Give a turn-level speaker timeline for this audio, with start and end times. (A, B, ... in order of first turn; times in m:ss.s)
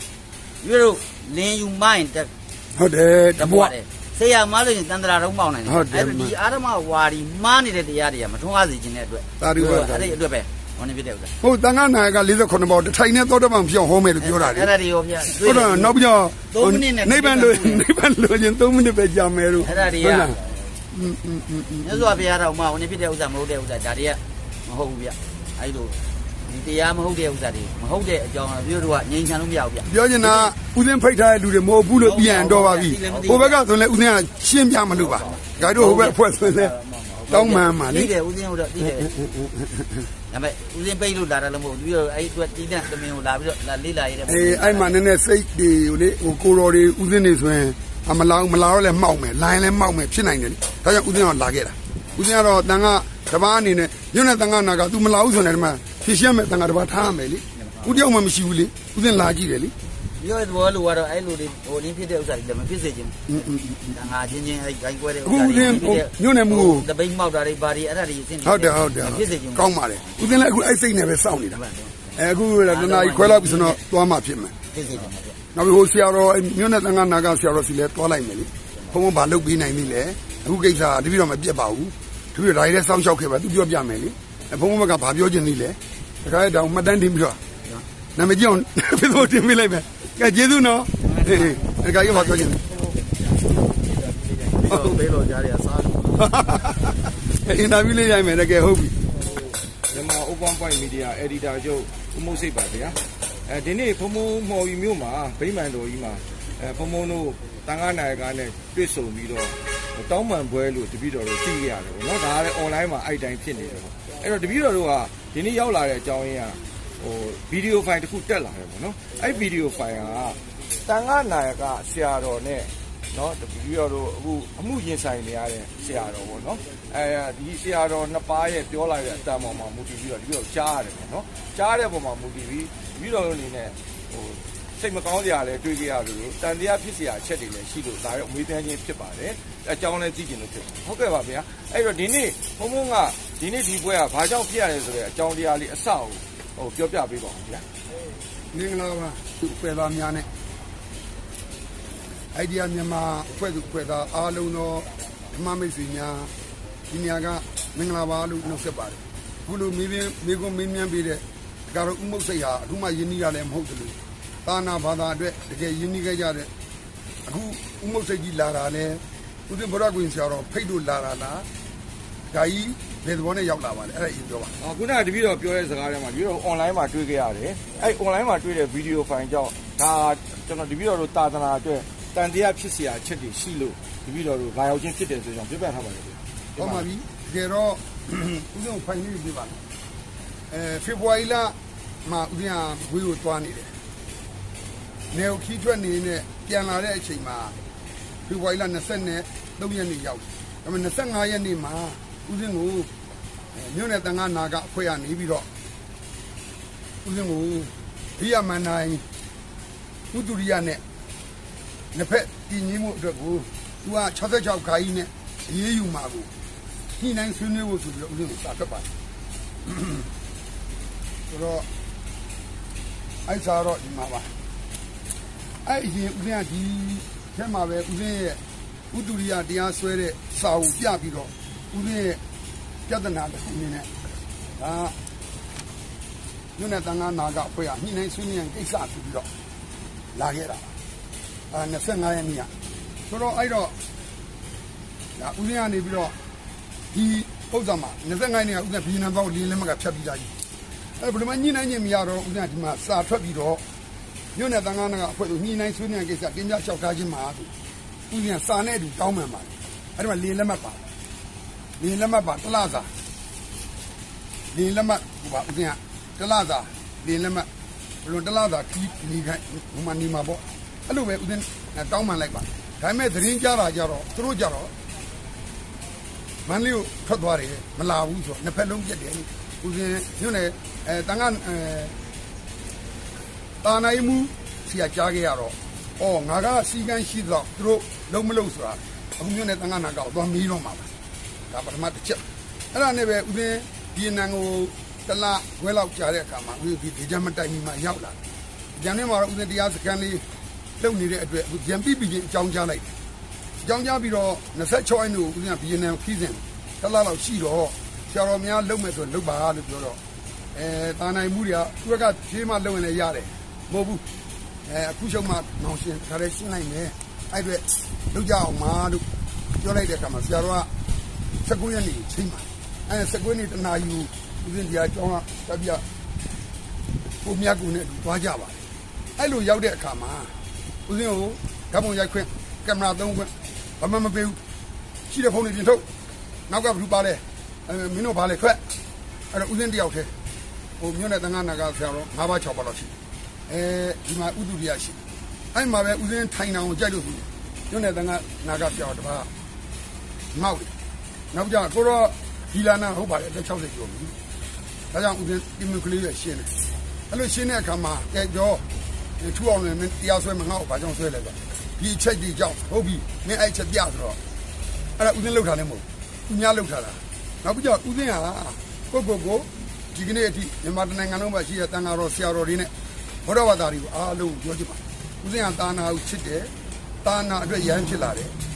0:00.6-0:02.3 A
0:02.8-0:03.7 B
0:03.4-0:11.3 A
0:05.7-0:06.4 B
0:09.4-0:10.2 B
0:11.4-0:14.7 B
0:14.2-0:16.0 A
0:15.4-0:20.4 B
0:16.5-0:17.9 A
0:19.6-0:20.5 A
0:20.9-0:22.2 B
0:21.8-0:30.5 A
0:29.8-0:36.7 B
0:32.0-0:33.6 A
0:35.0-0:39.1 A
0:37.3-0:38.1 B
0:39.1-0:40.1 B
0:40.3-0:45.0 A
0:44.3-0:59.7 B
0:57.6-0:58.0 A
1:00.2-1:10.3 A
1:03.3-1:04.0 B
1:05.2-1:06.9 B
1:08.4-1:11.6 B
1:11.5-1:13.8 A
1:12.2-1:14.5 B
1:14.7-1:15.4 A
1:15.6-1:27.4 B
1:28.2-1:32.6 B
1:31.0-1:36.2 A
1:34.7-1:35.0 B
1:36.2-1:39.0 B
1:39.9-2:27.6 C
2:28.5-2:30.3 B
2:32.3-2:36.3 B
2:36.9-2:46.5 B
2:47.3-2:51.5 B
2:52.3-2:54.5 B
2:54.6-3:06.9 C
3:06.6-3:09.6 B
3:10.5-3:13.7 B
3:15.1-3:17.6 B
3:18.3-3:22.9 B
3:23.5-3:25.5 B
3:27.0-3:29.0 B
3:30.1-3:30.8 B
3:31.9-3:36.3 B
3:37.0-3:38.9 B
3:39.7-3:40.1 B
3:41.3-3:41.7 B
3:43.3-3:44.3 B
3:45.6-3:48.4 B
3:48.9-3:52.2 B
3:52.9-3:53.9 B
3:54.6-3:55.0 B
3:56.6-3:59.3 B
4:00.2-4:00.7 B
4:01.5-4:02.5 B
4:03.1-4:03.7 B
4:05.2-4:06.2 B
4:06.9-4:10.3 B
4:11.0-4:13.6 B
4:14.4-4:17.5 B
4:18.1-4:20.8 B
4:21.8-4:22.9 B
4:24.5-4:27.5 B
4:28.0-4:34.7 B
4:36.5-4:42.0 B
4:43.6-4:50.9 B
4:51.5-4:58.2 B
4:58.8-5:00.2 B
5:00.8-5:02.9 B
5:03.6-5:10.0 B
5:10.6-5:14.0 B
5:14.7-5:19.0 B
5:19.6-5:20.7 B
5:21.4-5:25.8 B
5:27.2-5:28.6 B
5:29.2-5:30.3 B
5:30.9-5:34.4 B
5:35.1-5:35.8 B
5:36.5-5:38.6 B
5:39.3-5:40.1 B
5:40.8-5:42.9 B
5:43.5-5:45.0 B
5:45.5-5:49.3 B
5:50.3-5:50.7 B
5:51.3-5:54.1 B
5:54.9-5:56.5 B
5:57.1-5:58.6 B
5:59.2-6:04.2 B
6:05.0-6:12.7 B
6:13.2-6:16.5 B
6:17.0-6:18.4 B